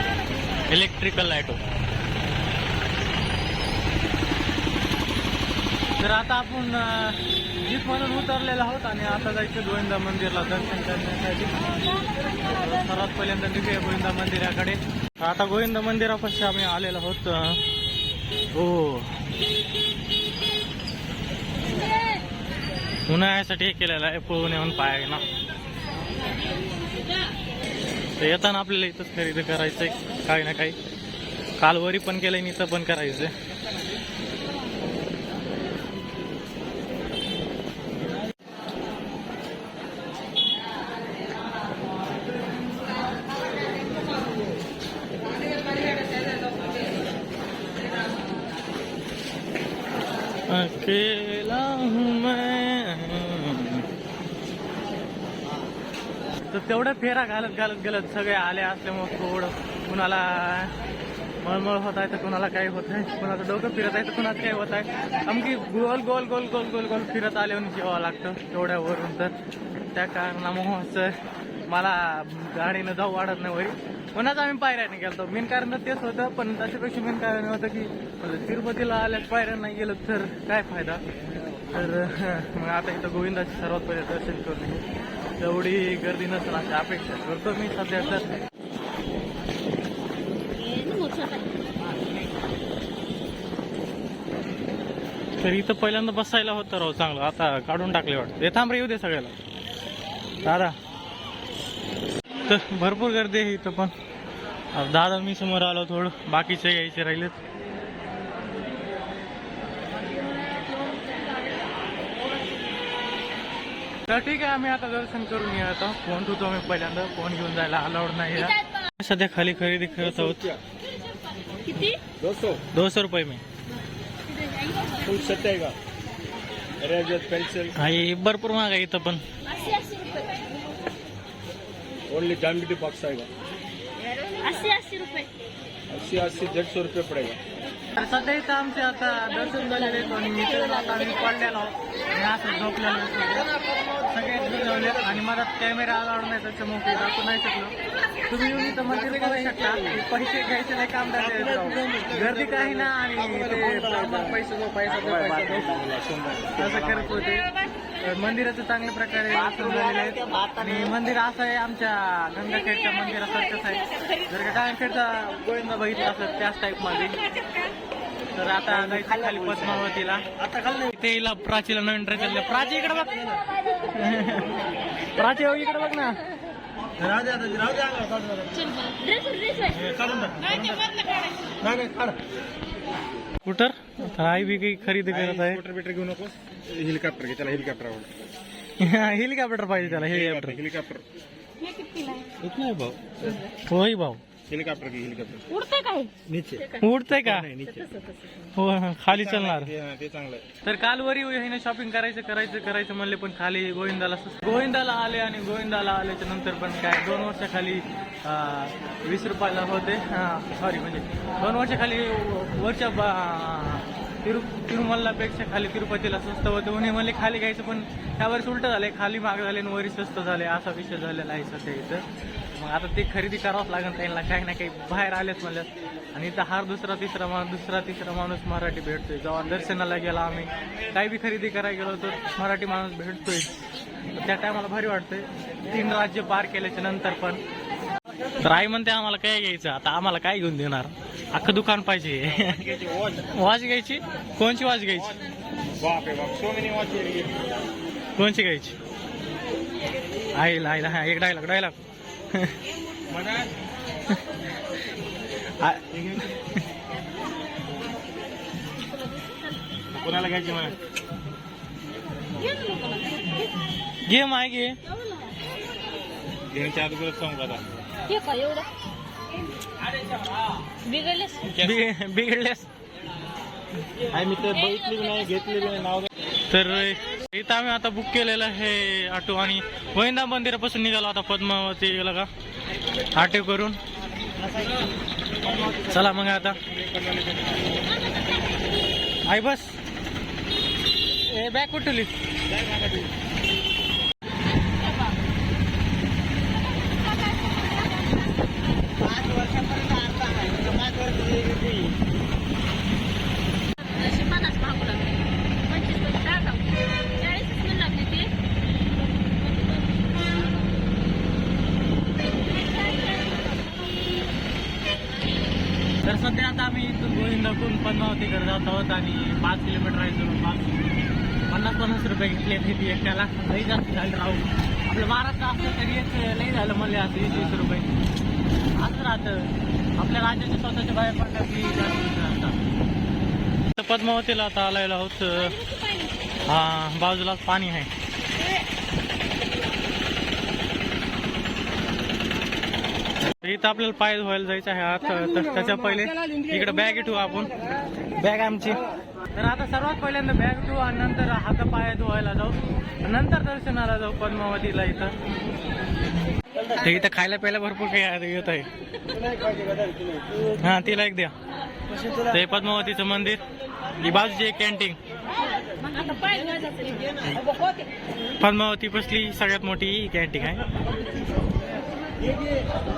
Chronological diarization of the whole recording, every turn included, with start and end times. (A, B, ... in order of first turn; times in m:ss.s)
0:00.6-0:01.6 A
0:06.0-0:11.7 A
0:12.3-0:17.6 A
0:18.5-0:19.2 A
0:23.1-0:25.2 A
0:28.2-0:30.8 A
0:31.6-0:33.3 A
0:50.5-0:53.9 A
0:56.5-1:00.8 A
1:01.4-1:21.0 A
1:21.7-1:24.8 A
1:25.4-1:28.3 A
1:30.5-1:31.5 B
1:35.4-1:39.3 A
1:40.4-1:40.8 A
1:42.4-1:43.9 A
1:44.7-1:47.4 A
1:54.1-2:00.6 A
2:01.6-2:02.0 B
2:02.2-2:02.6 C
2:02.7-2:03.4 A
2:04.9-2:05.8 C
2:06.8-2:07.7 C
2:07.7-2:09.2 A
2:09.6-2:10.3 B
2:12.1-2:13.3 C
2:14.1-2:15.3 B
2:15.9-2:17.4 C
2:18.0-2:27.7 A
2:28.2-2:35.8 A
2:34.9-2:37.1 C
2:36.5-2:47.3 A
2:48.3-2:54.6 A
2:55.1-2:56.2 A
2:57.0-2:58.3 C
2:58.6-2:59.8 B
2:59.8-3:00.7 C
3:01.6-3:02.2 C
3:03.4-3:05.6 A
3:05.2-3:08.1 C
3:08.8-3:10.6 A
3:09.9-3:11.0 C
3:11.6-3:12.3 B
3:12.4-3:13.3 C
3:13.6-3:14.2 A
3:14.5-3:15.4 C
3:15.5-3:16.1 B
3:16.3-3:17.9 C
3:16.8-3:17.6 A
3:17.8-3:18.2 B
3:18.4-3:19.7 A
3:19.1-3:20.4 C
3:20.6-3:53.5 A
3:54.1-3:57.4 A
3:58.4-4:05.2 A
4:02.5-4:03.3 C
4:05.8-4:07.4 C
4:08.2-4:08.8 A
4:10.3-4:11.8 A
4:12.3-4:12.6 A
4:13.1-4:13.5 C
4:15.6-4:16.6 A
4:19.9-4:20.8 C
4:22.4-4:23.5 B
4:24.0-4:24.8 A
4:26.5-4:27.7 C
4:28.1-4:28.7 B
4:30.8-4:31.5 B
4:31.5-4:32.7 A
4:34.1-4:36.0 C
4:34.1-4:34.8 A
4:35.5-4:35.9 A
4:36.5-4:42.3 A
4:43.1-4:43.8 A
4:45.8-4:46.6 A
4:47.0-4:47.4 C
4:49.2-4:49.8 A
4:51.1-4:52.1 A
4:52.5-4:53.1 C
4:59.1-5:01.9 C
5:03.8-5:08.3 B
5:09.2-5:10.6 B
5:13.0-5:13.4 B
5:16.0-5:20.8 A
5:21.5-5:27.9 A
5:28.8-5:32.6 A
5:33.7-5:35.6 A
5:36.4-5:37.9 A
5:43.4-5:47.5 A
5:48.2-5:55.2 A
5:56.7-5:58.7 A
6:00.4-6:01.3 A
6:02.2-6:03.4 A
6:04.0-6:05.0 A
6:05.8-6:07.2 B
6:08.4-6:10.6 A